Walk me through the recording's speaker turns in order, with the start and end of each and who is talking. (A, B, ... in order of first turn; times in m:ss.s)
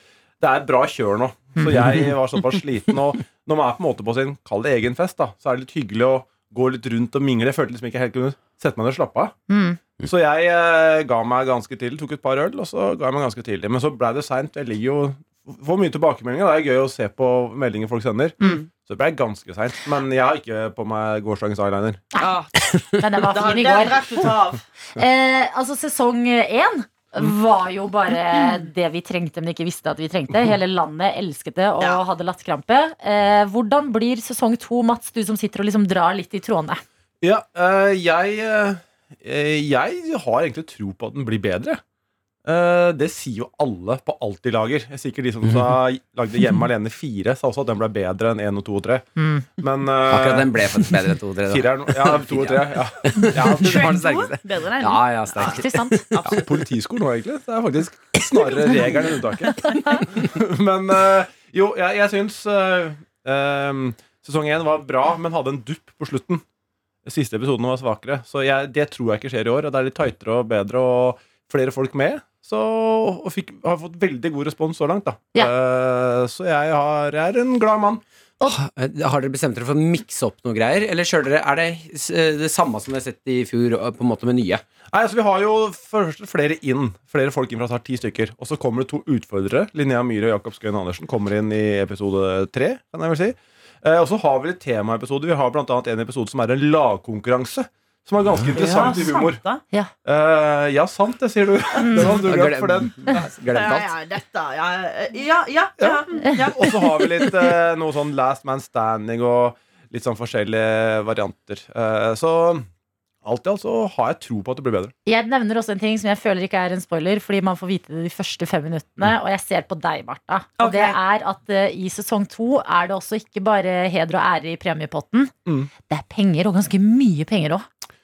0:00.4-0:09.4 A
0:09.5-0:09.8 B
0:10.0-0:22.1 A
0:18.4-0:18.7 C
0:22.2-0:22.6 C
0:23.0-0:24.3 B
0:23.3-0:24.6 C
0:25.0-0:36.8 B
0:37.2-0:41.8 A
0:42.4-0:50.6 A
0:49.2-0:49.5 B
0:50.1-0:56.4 D
0:51.5-0:53.9 A
0:53.6-0:56.4 C
0:55.4-0:56.1 B
0:56.3-1:06.4 A
1:07.0-1:18.0 A
1:18.4-1:24.6 D
1:24.9-1:39.4 A
1:38.5-1:39.6 C
1:40.0-1:43.2 A
1:41.8-1:42.1 B
1:42.0-1:43.9 D
1:43.5-1:46.9 C
1:45.8-1:52.7 A
1:53.2-1:54.9 A
1:55.1-2:05.3 B
2:00.6-2:01.0 C
2:05.9-2:07.6 B